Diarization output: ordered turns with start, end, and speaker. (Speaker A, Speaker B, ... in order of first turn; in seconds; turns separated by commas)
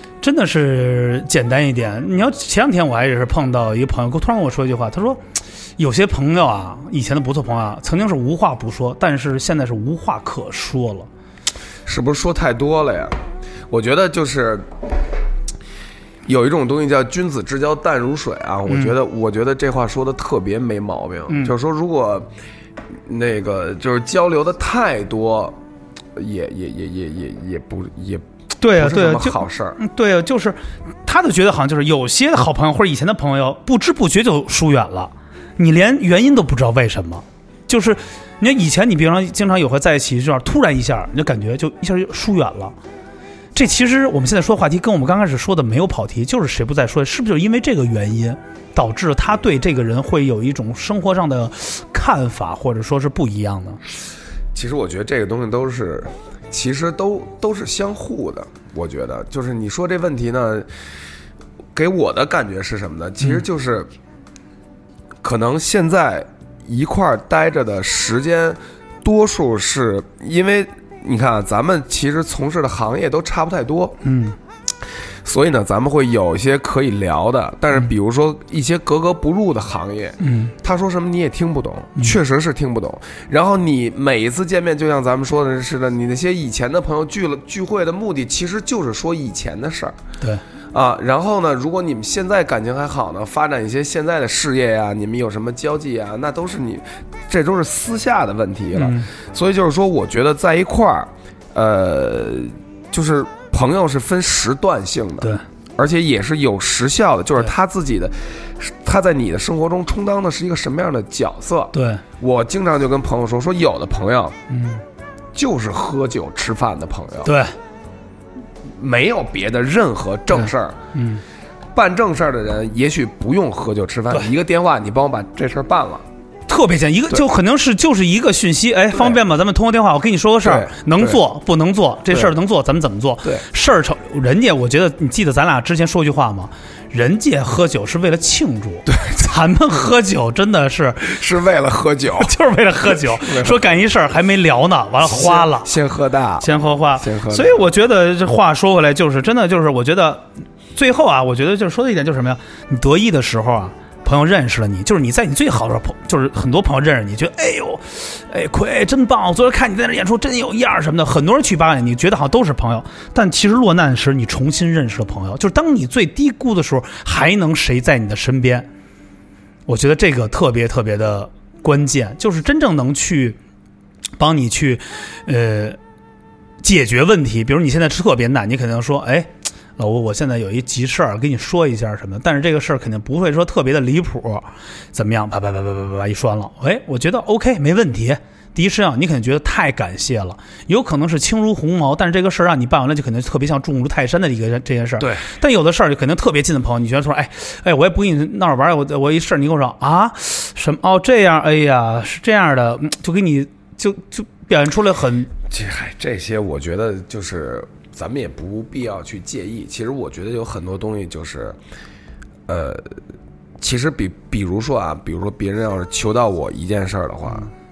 Speaker A: 0.2-5.2, Speaker A: 5.8-11.1, Speaker B: 11.9-13.2, Speaker B: 13.7-14.7, Speaker B: 16.3-22.3, Speaker A: 18.7-18.9, Speaker A: 21.3-21.5, Speaker B: 23.1-25.6, Speaker B: 26.2-28.2, Speaker A: 28.6-42.8, Speaker B: 28.8-29.8, Speaker A: 43.5-53.8, Speaker B: 54.5-60.7, Speaker B: 61.8-63.9, Speaker B: 65.2-74.0, Speaker A: 74.0-74.4, Speaker B: 75.2-90.0, Speaker A: 80.2-80.5, Speaker B: 90.7-114.4, Speaker A: 98.8-99.1, Speaker A: 111.7-112.0, Speaker A: 114.5-114.8, Speaker B: 115.3-117.3, Speaker A: 117.2-117.6, Speaker B: 118.7-120.8, Speaker A: 120.3-121.2, Speaker B: 121.7-126.0, Speaker A: 126.5-141.2, Speaker B: 128.9-129.2, Speaker B: 130.4-131.2, Speaker B: 138.9-139.3, Speaker B: 141.0-142.3, Speaker A: 142.2-145.7, Speaker B: 143.0-143.6, Speaker B: 145.0-147.7, Speaker A: 146.4-168.7, Speaker A: 169.7-173.4, Speaker A: 174.2-175.8, Speaker A: 176.6-205.3, Speaker B: 205.5-211.6, Speaker B: 212.5-213.0, Speaker B: 213.6-217.5